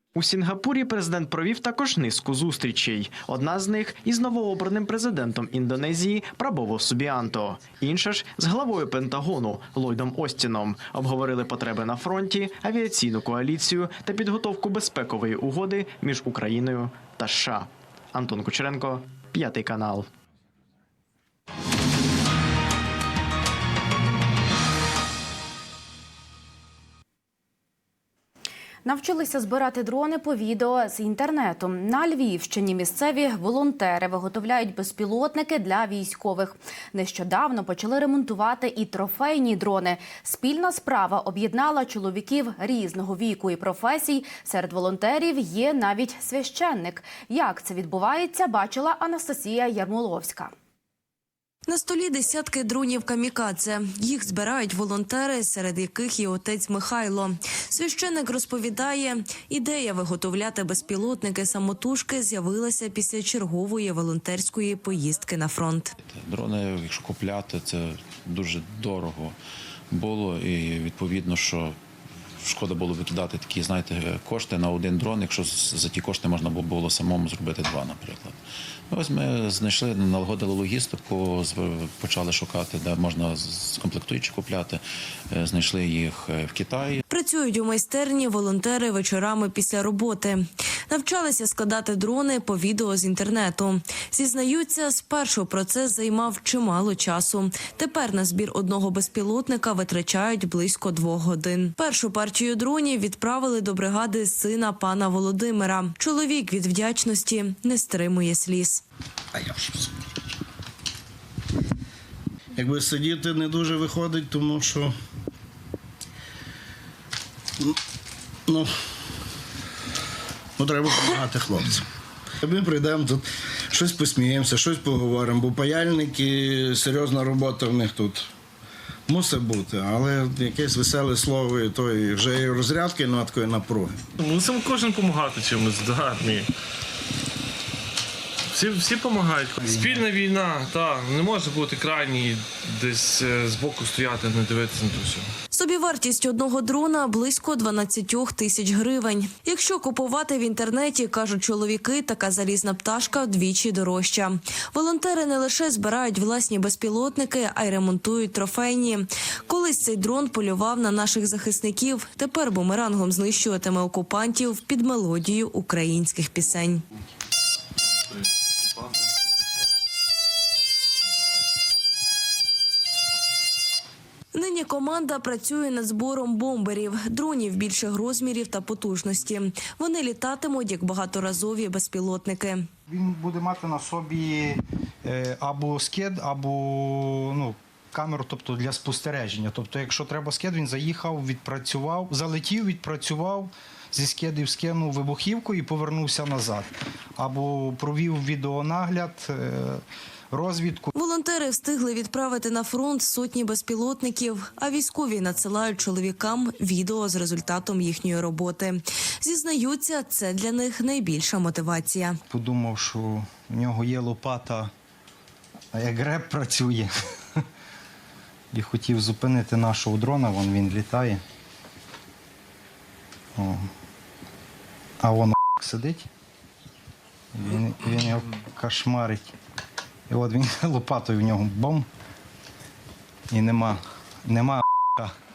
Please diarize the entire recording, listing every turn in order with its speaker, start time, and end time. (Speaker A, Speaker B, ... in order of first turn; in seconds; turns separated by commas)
Speaker A: 0.1-20.1, Speaker B: 28.8-50.5, Speaker C: 51.7-65.9, Speaker D: 66.0-69.3, Speaker D: 69.9-71.8, Speaker D: 72.4-78.4, Speaker D: 78.9-87.0, Speaker C: 87.1-108.8, Speaker E: 109.3-109.9, Speaker E: 112.6-114.9, Speaker E: 120.6-121.8, Speaker E: 122.4-128.3, Speaker E: 129.1-134.0, Speaker F: 134.2-136.5, Speaker F: 138.5-145.3, Speaker C: 145.5-166.8, Speaker C: 174.3-182.7, Speaker G: 182.9-200.9, Speaker C: 200.9-212.2, Speaker G: 212.3-214.7, Speaker G: 215.7-217.4, Speaker G: 218.5-221.2, Speaker G: 223.3-223.7, Speaker G: 225.0-226.1, Speaker G: 227.3-229.3, Speaker G: 230.1-231.9, Speaker G: 233.3-235.1